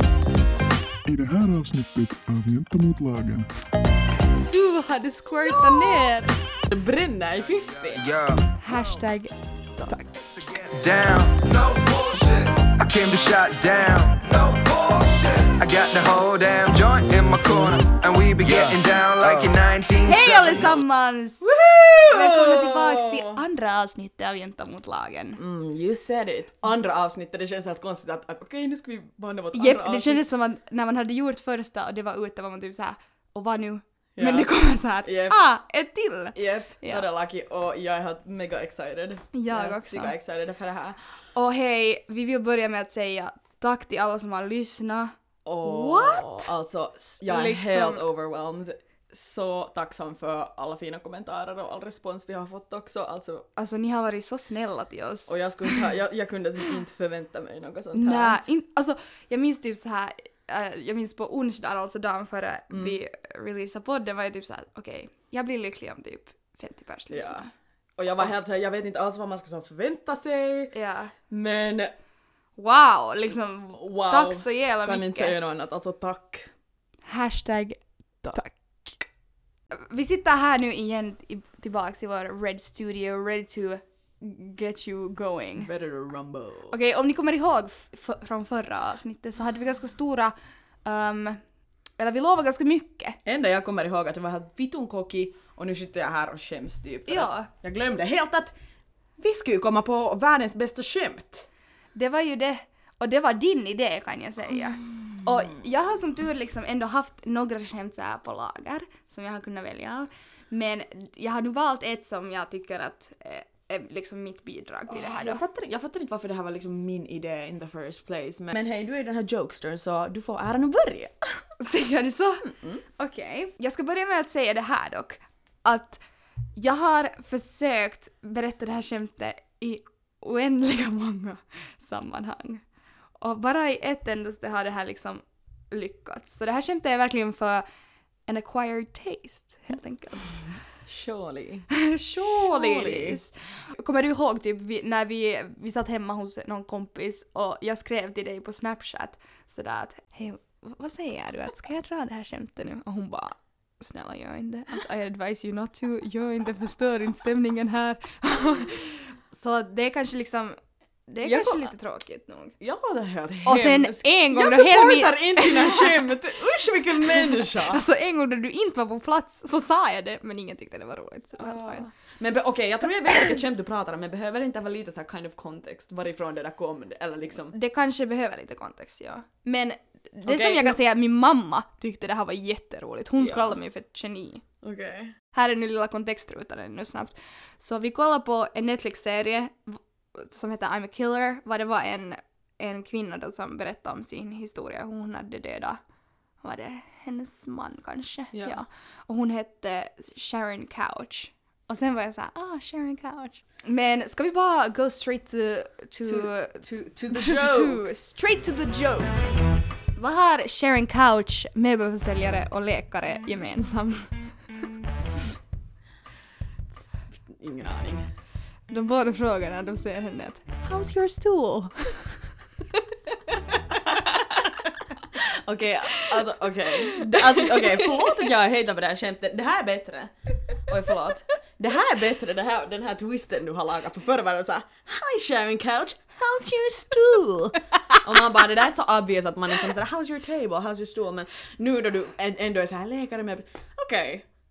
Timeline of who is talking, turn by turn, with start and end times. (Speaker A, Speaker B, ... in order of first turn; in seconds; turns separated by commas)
Speaker A: 1.1-3.5, Speaker B: 4.5-6.3, Speaker C: 5.5-6.1, Speaker C: 6.7-8.1, Speaker D: 8.0-8.4, Speaker B: 8.6-10.3, Speaker D: 10.3-20.8, Speaker B: 20.1-21.5, Speaker C: 21.4-23.4, Speaker B: 22.1-25.4, Speaker C: 25.4-30.2, Speaker B: 29.5-37.1, Speaker C: 34.2-35.4, Speaker C: 36.3-41.0, Speaker B: 39.3-40.1, Speaker B: 41.3-46.5, Speaker C: 45.5-53.5, Speaker B: 47.2-48.0, Speaker B: 53.6-55.9, Speaker C: 55.3-58.4, Speaker B: 57.9-67.5, Speaker C: 62.7-63.0, Speaker C: 67.1-70.7, Speaker B: 70.7-71.1, Speaker C: 71.3-71.9, Speaker B: 72.6-75.3, Speaker C: 73.8-76.5, Speaker B: 77.0-79.0, Speaker B: 79.7-85.7, Speaker C: 85.6-86.8, Speaker B: 86.7-91.4, Speaker B: 92.0-93.2, Speaker C: 93.2-98.5, Speaker B: 97.1-97.5, Speaker C: 99.2-101.5, Speaker B: 101.9-115.4, Speaker C: 114.9-121.5, Speaker B: 121.6-126.0, Speaker C: 122.4-122.8, Speaker B: 126.5-132.7, Speaker B: 133.2-137.7, Speaker B: 138.3-140.6, Speaker C: 140.8-143.2, Speaker B: 141.8-162.6, Speaker C: 161.2-161.7, Speaker C: 162.6-167.8, Speaker B: 163.4-166.1, Speaker B: 167.0-171.9, Speaker C: 171.4-177.6, Speaker B: 177.5-184.5, Speaker C: 180.3-180.8, Speaker C: 183.2-183.6, Speaker C: 184.6-185.1, Speaker B: 185.3-195.8, Speaker B: 196.4-209.2, Speaker C: 198.3-198.6, Speaker C: 206.1-207.9, Speaker B: 209.9-214.5, Speaker C: 217.1-218.1, Speaker B: 218.7-222.8, Speaker C: 223.8-224.6, Speaker C: 225.1-244.3, Speaker B: 226.9-228.1